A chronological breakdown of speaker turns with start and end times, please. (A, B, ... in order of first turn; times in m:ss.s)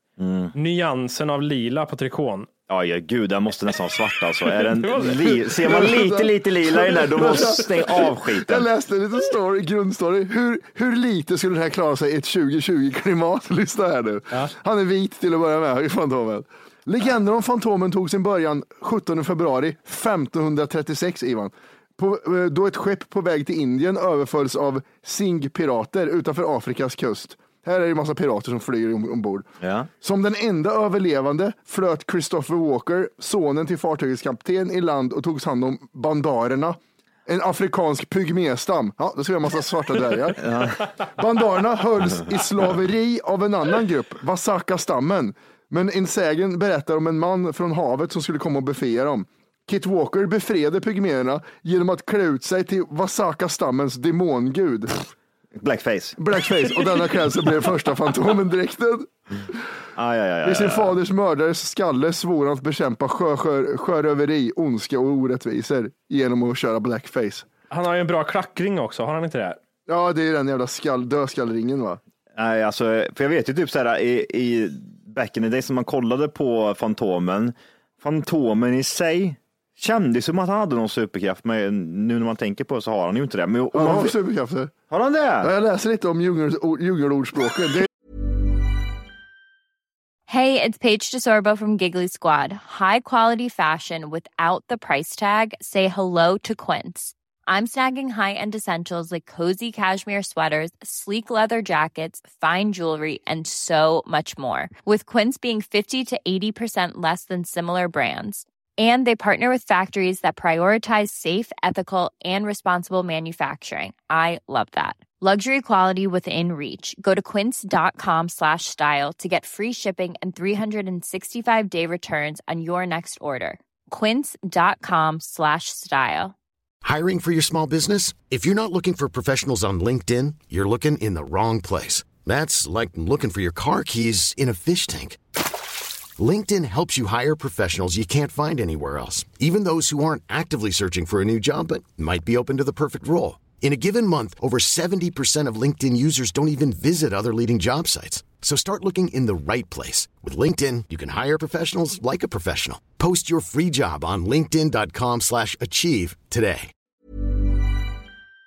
0:00.2-0:00.6 A
0:00.6-0:02.5 B
0:02.7-0:08.7 A
0:04.5-0:05.8 B
0:05.6-0:29.5 C
0:29.6-0:29.9 A
0:30.0-0:55.0 C
0:40.4-0:40.9 A
0:55.6-0:56.2 A
0:56.2-0:59.6 C
1:00.0-1:01.0 A
1:00.4-1:07.5 C
1:07.7-1:09.6 B
1:09.9-1:12.0 C
1:12.4-1:24.2 A
1:23.7-1:24.7 C
1:24.9-1:25.5 A
1:25.4-1:27.9 C
1:30.3-2:06.4 D
2:06.8-2:15.2 E
2:16.2-2:36.7 E